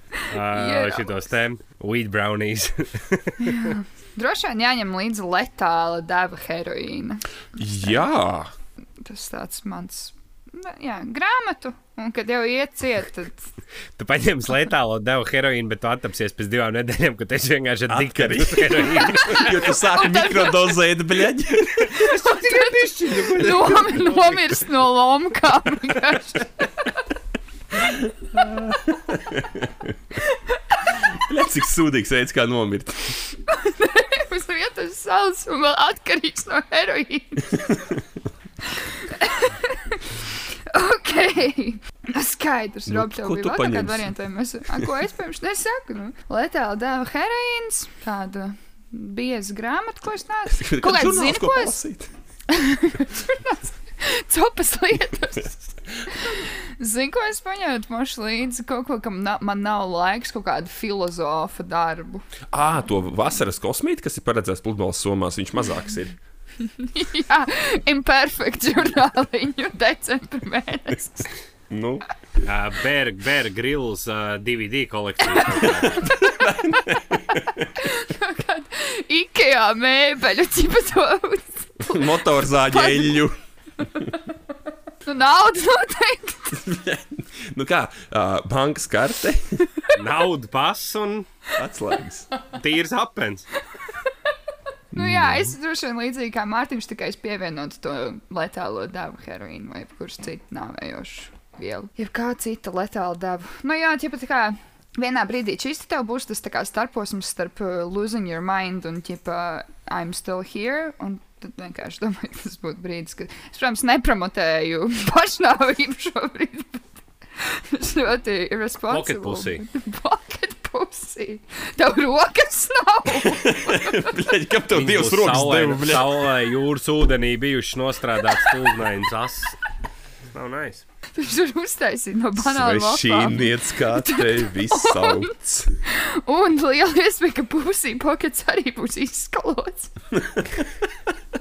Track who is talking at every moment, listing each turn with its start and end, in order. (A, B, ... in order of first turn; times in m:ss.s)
0:00.2-0:01.2 A
0:00.3-0:03.8 B
0:03.4-0:08.0 A
0:07.6-0:08.5 C
0:09.0-0:13.4 A
0:14.0-0:19.5 B
0:17.9-0:22.2 C
0:19.1-0:20.8 A
0:21.9-0:24.6 B
0:22.2-0:26.7 A
0:27.7-0:30.0 C
0:30.2-0:31.1 A
0:31.0-0:33.2 C
0:33.5-0:37.8 A
0:37.7-0:38.0 C
0:38.7-0:51.8 A
0:42.9-0:44.1 C
0:50.5-0:52.1 C
0:52.5-1:02.2 A
1:02.5-1:06.2 C
1:06.6-1:11.3 A
1:11.7-1:12.0 C
1:12.4-1:16.0 B
1:15.4-1:16.6 A
1:15.6-1:17.7 C
1:17.2-1:23.2 A
1:21.8-1:23.4 C
1:25.1-1:26.7 A
1:26.5-1:29.7 C
1:29.9-1:31.3 B
1:31.6-1:32.3 C
1:32.5-1:33.5 B
1:34.9-1:35.5 C
1:35.0-2:04.0 A
1:58.9-1:59.6 B
2:03.2-2:06.4 C
2:04.7-2:09.6 B
2:10.3-2:10.8 B
2:11.2-2:15.3 A
2:12.4-2:15.7 C
2:15.8-2:19.9 A
2:20.2-2:21.1 C